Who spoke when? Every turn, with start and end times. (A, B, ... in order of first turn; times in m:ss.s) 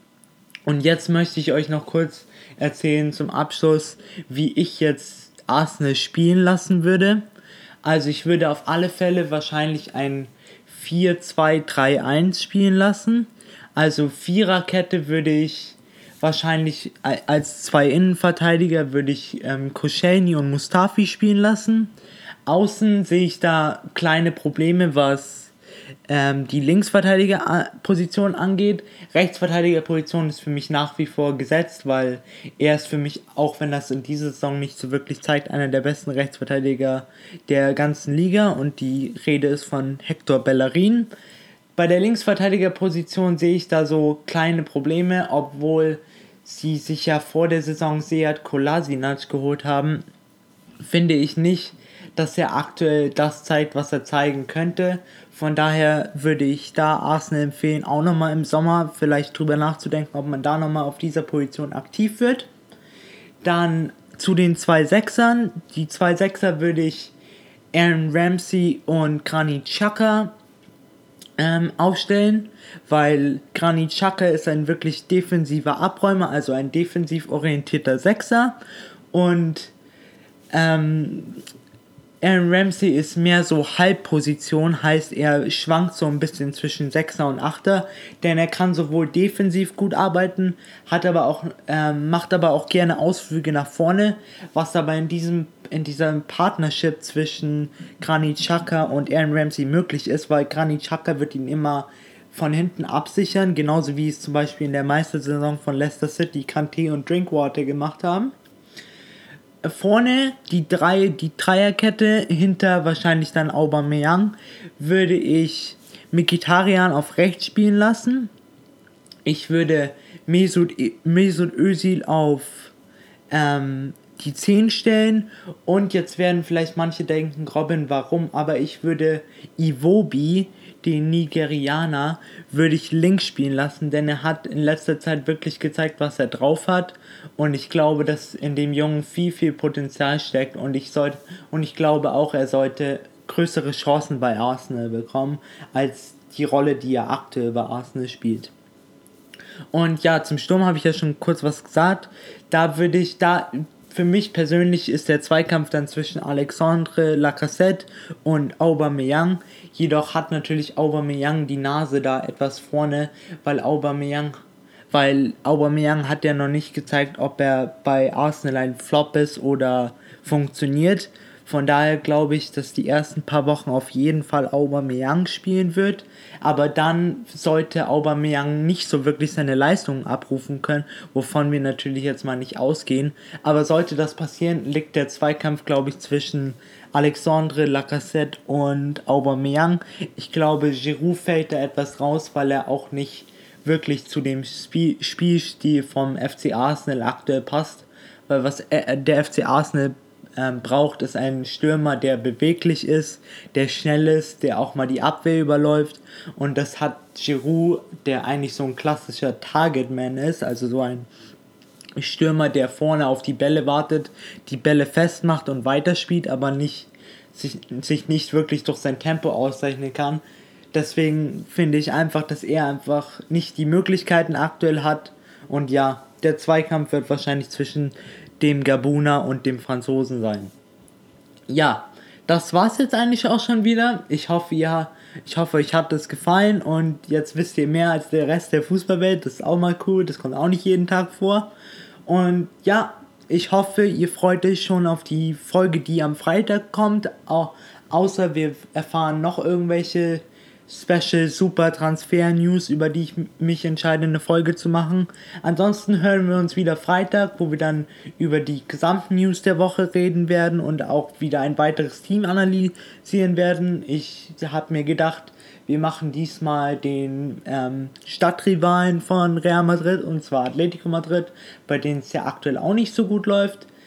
0:00.7-0:07.2 A
0:07.8-0:21.9 A
0:22.4-0:25.5 A
0:26.1-0:41.1 A
0:41.8-0:50.0 A
0:50.8-1:02.5 A
1:03.4-1:07.1 A
1:07.7-1:10.3 A
1:11.4-1:18.6 A
1:19.1-1:19.7 A
1:20.5-1:21.4 A
1:22.2-1:48.3 A
1:49.6-1:58.3 A
1:59.2-2:02.7 A
2:03.3-2:28.5 A
2:29.7-2:44.4 A
2:44.9-3:31.1 A
3:32.0-3:50.5 A
3:51.5-4:01.5 A
4:02.0-4:33.7 A